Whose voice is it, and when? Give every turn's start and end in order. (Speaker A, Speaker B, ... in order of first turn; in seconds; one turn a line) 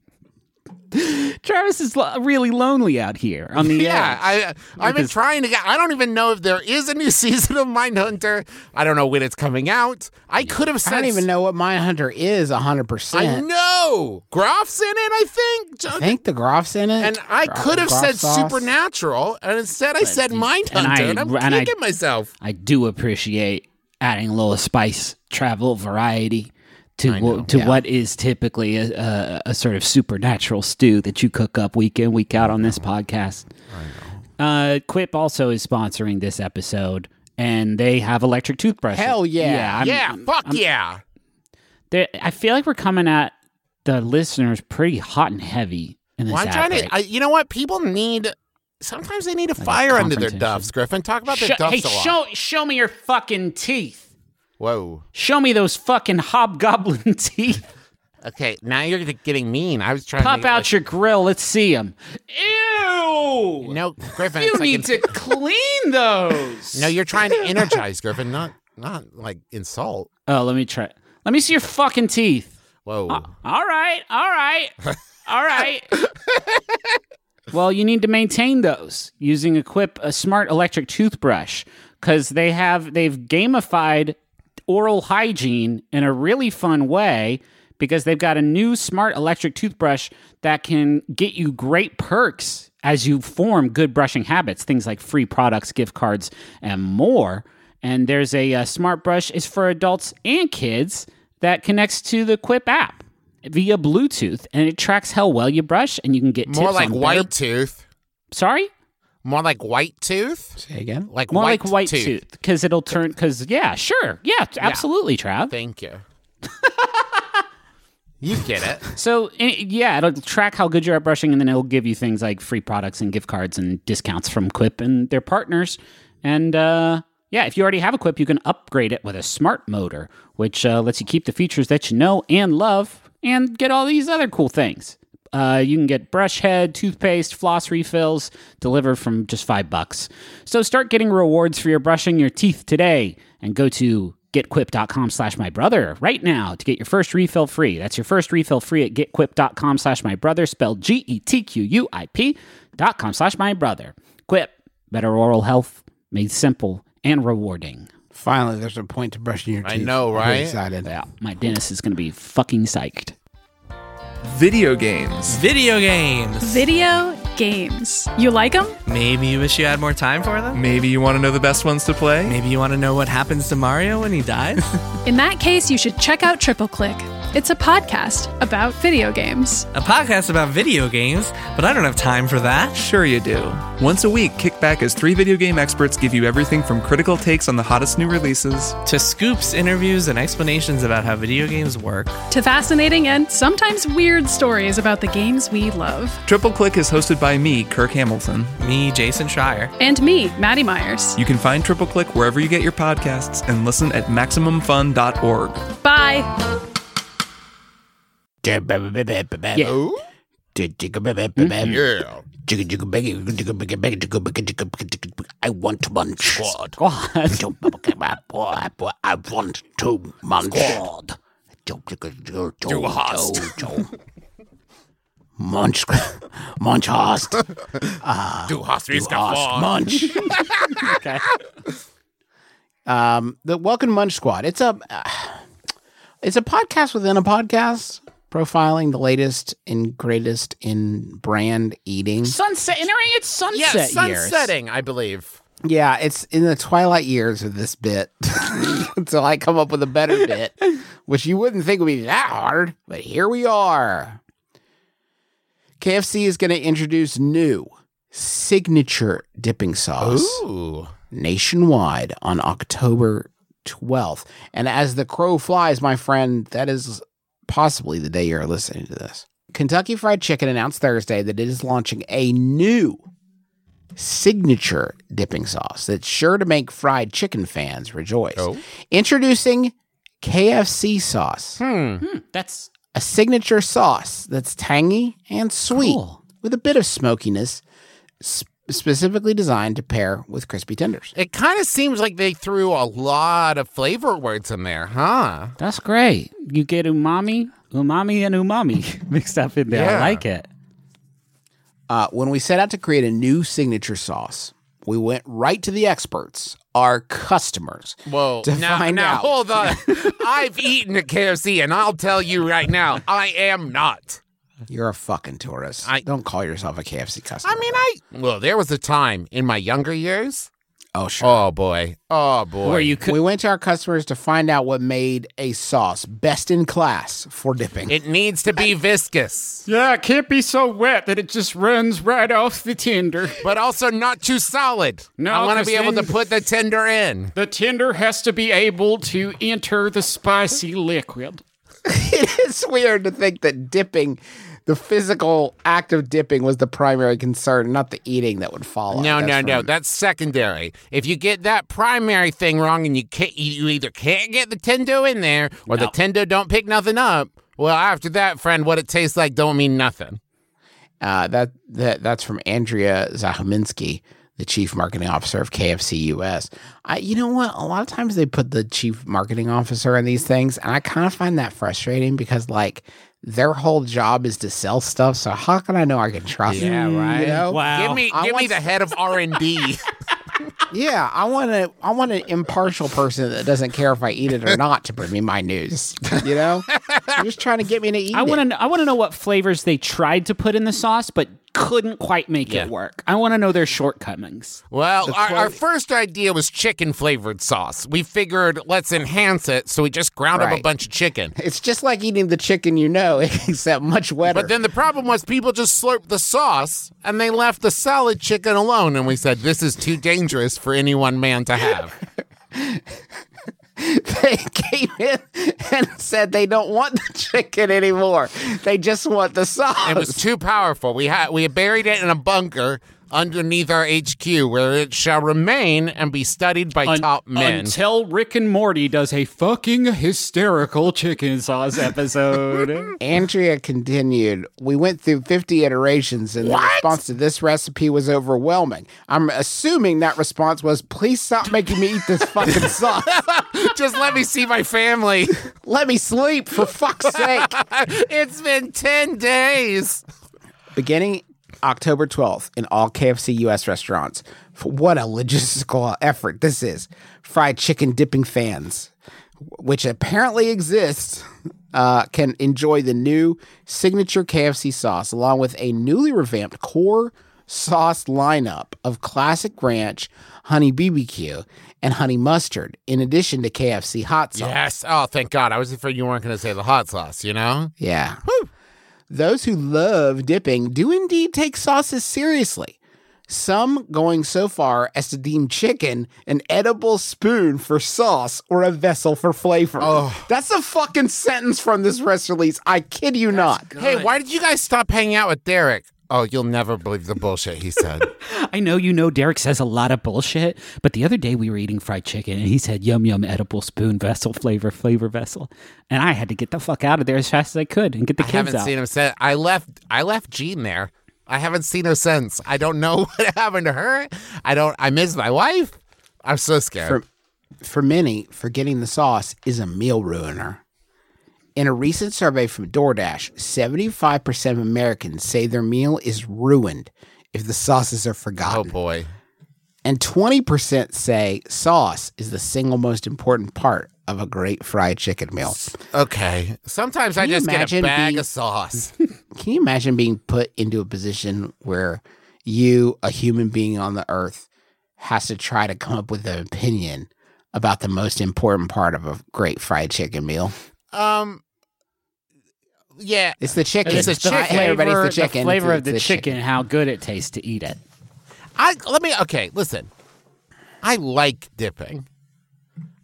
Speaker A: 0.9-5.1
Speaker B: 3.6-11.2
Speaker C: 10.8-13.4
Speaker B: 13.1-16.1
Speaker C: 15.9-18.7
Speaker B: 17.0-22.3
Speaker A: 20.0-21.7
Speaker A: 22.4-33.5
Speaker B: 27.1-27.5
Speaker C: 27.5-27.8
Speaker B: 33.7-34.1
Speaker A: 34.4-40.6
Speaker C: 38.9-39.8
Speaker B: 39.8-41.0
Speaker A: 41.9-43.3
Speaker A: 43.9-46.9
Speaker B: 46.3-52.2
Speaker A: 49.6-50.7
Speaker A: 51.3-54.1
Speaker B: 54.6-55.0
Speaker A: 55.1-57.6
Speaker B: 58.2-60.7
Speaker A: 60.2-63.8
Speaker B: 63.6-65.2
Speaker A: 64.3-66.9
Speaker B: 66.8-70.1
Speaker A: 70.3-72.5
Speaker B: 72.9-73.3
Speaker A: 73.1-74.7
Speaker A: 75.3-76.0
Speaker A: 77.5-84.2
Speaker A: 84.7-107.3
Speaker B: 106.5-107.8
Speaker A: 108.3-108.7
Speaker B: 109.2-110.6
Speaker C: 110.6-111.1
Speaker B: 111.1-112.1
Speaker A: 111.3-115.5
Speaker B: 115.5-116.0
Speaker A: 116.6-117.2
Speaker B: 118.2-118.8
Speaker A: 119.0-157.9
Speaker C: 158.1-161.0
Speaker B: 159.6-160.6
Speaker A: 160.9-163.2
Speaker D: 164.2-165.4
Speaker E: 165.3-166.7
Speaker F: 166.4-168.8
Speaker E: 168.9-170.6
Speaker D: 170.5-172.3
Speaker E: 172.2-174.8
Speaker F: 175.1-179.7
Speaker E: 179.7-182.8
Speaker D: 182.8-188.8
Speaker E: 188.8-192.2
Speaker F: 192.3-196.2
Speaker D: 196.3-198.5
Speaker E: 198.6-199.7
Speaker F: 199.8-201.2
Speaker D: 201.2-205.7
Speaker F: 205.8-206.4
Speaker C: 208.4-209.8
Speaker B: 209.6-210.0
Speaker C: 210.6-211.8
Speaker B: 211.6-212.2
Speaker C: 212.4-216.6
Speaker B: 216.3-216.8
Speaker A: 216.8-217.4
Speaker C: 217.3-221.1
Speaker C: 221.7-223.9
Speaker B: 222.7-223.6
Speaker C: 225.4-230.4
Speaker B: 228.5-230.6
Speaker A: 230.8-231.2
Speaker C: 232.9-235.4
Speaker C: 236.2-242.3
Speaker A: 242.2-244.5
Speaker B: 243.5-245.4
Speaker C: 245.6-254.2
Speaker C: 255.8-260.4
Speaker B: 260.0-260.9
Speaker C: 261.1-273.0
Speaker C: 274.0-281.6
Speaker B: 281.6-282.0
Speaker A: 282.0-282.7
Speaker C: 282.9-287.6
Speaker A: 285.7-286.2
Speaker C: 288.2-291.1
Speaker B: 291.1-295.6
Speaker A: 295.6-300.5
Speaker B: 299.7-300.2
Speaker C: 301.9-310.2
Speaker B: 308.1-314.2
Speaker C: 314.7-317.8
Speaker B: 317.4-320.5
Speaker C: 320.9-321.4
Speaker B: 321.2-323.0
Speaker A: 322.6-323.2
Speaker C: 323.0-328.0
Speaker B: 327.9-329.6
Speaker A: 329.7-333.4
Speaker B: 333.4-337.3
Speaker A: 335.2-336.1
Speaker A: 337.4-341.4
Speaker C: 341.9-349.7
Speaker B: 348.9-360.2
Speaker C: 361.0-378.6
Speaker B: 376.5-379.8
Speaker A: 376.6-378.1
Speaker C: 380.7-388.4
Speaker B: 386.8-387.2
Speaker A: 388.1-394.6
Speaker B: 394.7-401.3
Speaker C: 395.1-395.6
Speaker C: 400.3-400.6
Speaker C: 401.4-404.5
Speaker B: 404.3-412.0
Speaker C: 412.5-412.8
Speaker C: 413.8-420.2
Speaker B: 419.8-427.7
Speaker A: 426.9-432.9
Speaker C: 433.0-443.3
Speaker B: 436.4-436.9
Speaker B: 443.2-445.4
Speaker C: 445.6-447.6
Speaker B: 447.2-450.0
Speaker C: 450.8-458.9
Speaker C: 459.5-474.6
Speaker B: 474.4-477.7
Speaker C: 477.8-478.2
Speaker C: 479.1-482.8
Speaker C: 483.3-493.7
Speaker B: 489.8-490.3
Speaker A: 493.6-494.1
Speaker B: 493.8-498.1
Speaker A: 498.2-508.7
Speaker B: 508.2-517.0
Speaker C: 517.6-520.6
Speaker C: 521.6-528.7
Speaker B: 528.5-529.1
Speaker C: 529.9-535.7
Speaker B: 535.5-538.9
Speaker C: 537.2-538.3
Speaker C: 539.3-544.5
Speaker C: 545.0-550.5
Speaker B: 550.9-551.4
Speaker B: 553.0-554.8
Speaker C: 553.4-556.3
Speaker A: 553.9-557.8
Speaker B: 558.6-559.9
Speaker B: 560.8-562.1